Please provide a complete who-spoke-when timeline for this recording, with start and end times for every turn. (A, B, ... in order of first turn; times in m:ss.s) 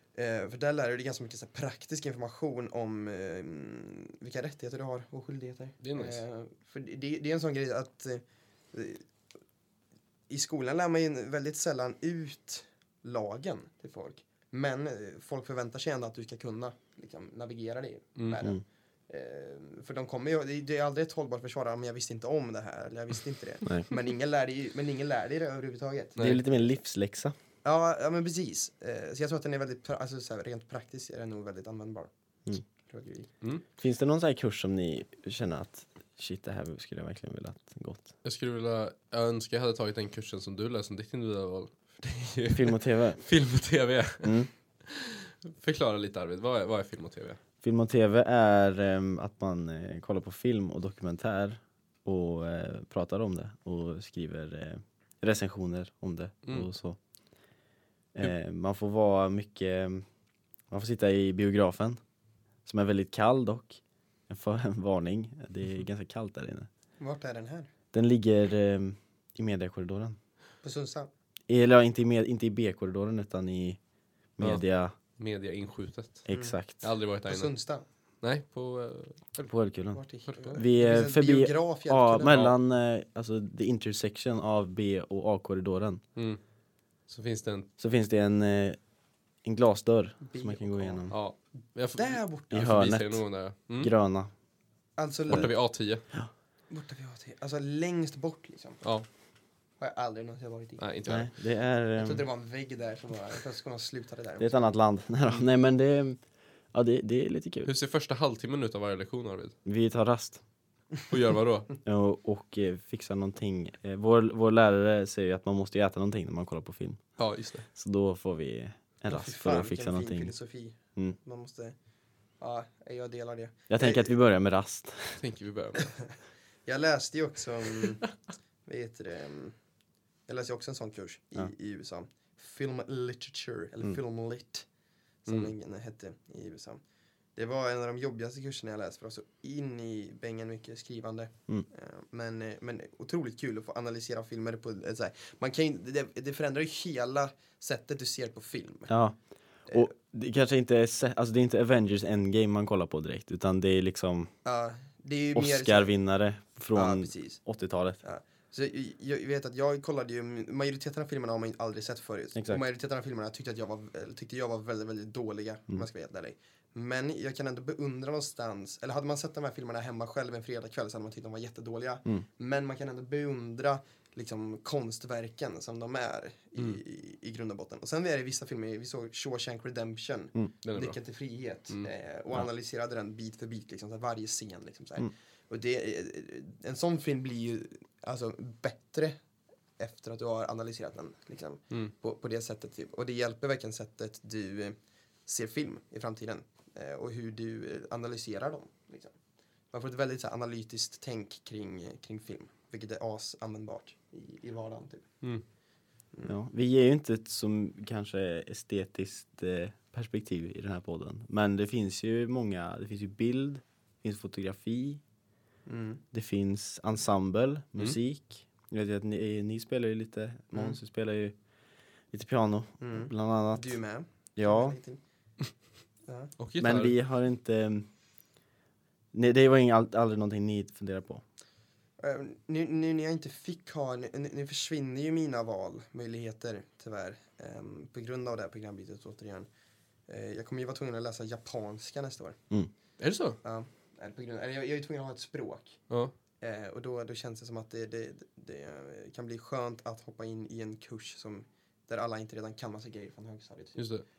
0:00.2-0:09.0 A
0:05.8-0:06.2 B
0:10.3-0:26.2 A
0:18.2-0:18.5 B
0:26.2-0:26.4 B
0:26.2-0:27.4 C
0:27.6-0:32.1 A
0:32.8-0:33.3 A
0:33.8-0:38.1 C
0:38.2-0:47.4 B
0:42.5-0:43.2 C
0:44.2-0:44.5 C
0:47.6-0:57.0 C
0:58.1-1:00.0 C
1:00.7-1:02.0 C
1:02.6-1:06.7 C
1:07.0-1:07.7 A
1:07.9-1:10.2 C
1:10.6-1:11.1 A
1:11.5-1:13.8 C
1:14.4-1:14.9 C
1:15.2-1:17.5 B
1:16.3-1:16.8 C
1:16.3-1:16.6 A
1:17.3-1:17.8 A
1:18.2-1:19.5 B
1:19.5-1:20.0 C
1:19.9-1:22.4 A
1:20.3-1:20.6 B
1:20.6-1:26.0 C
1:22.2-1:22.6 B
1:27.1-1:27.7 B
1:27.8-1:28.8 C
1:29.4-1:31.2 C
1:30.2-1:31.1 A
1:31.1-1:33.9 B
1:32.0-1:32.8 A
1:32.5-1:33.2 C
1:33.8-1:34.3 C
1:35.0-1:35.5 A
1:35.3-1:36.0 B
1:36.7-1:38.8 A
1:39.8-1:40.8 A
1:40.8-1:41.3 B
1:41.1-1:42.2 C
1:42.0-1:44.5 A
1:44.4-1:46.2 C
1:46.7-1:47.7 C
1:47.7-1:49.6 B
1:49.7-1:50.4 C
1:51.1-1:51.7 B
1:51.8-1:57.0 C
1:57.2-1:57.7 B
1:57.8-2:00.3 C
1:59.1-2:01.8 A
2:02.4-2:04.2 A
2:03.7-2:05.2 C
2:05.2-2:05.9 B
2:06.7-2:08.0 A
2:08.7-2:09.6 A
2:10.3-2:14.7 A
2:15.2-2:16.8 A
2:15.3-2:15.5 B
2:17.4-2:28.9 A
2:28.9-2:29.2 C
2:29.7-2:34.3 C
2:34.4-2:35.9 A
2:35.4-2:38.0 C
2:36.7-2:37.4 A
2:38.0-3:09.2 A
2:42.4-2:42.6 C
3:00.6-3:01.0 B
3:09.8-3:14.8 A
3:15.3-3:19.2 A
3:19.7-3:25.1 A
3:26.2-3:35.0 C
3:35.7-3:36.0 A
3:36.1-3:41.4 C
3:42.1-3:43.8 C
3:42.8-3:45.0 A
3:44.4-3:44.8 C
3:46.1-3:46.3 A
3:46.4-3:47.0 B
3:46.6-3:47.9 C
3:49.1-3:51.2 C
3:52.0-3:59.5 A
4:00.1-4:02.4 A
4:03.0-4:03.4 B
4:03.4-4:05.8 A
4:06.4-4:13.8 A
4:13.8-4:14.0 B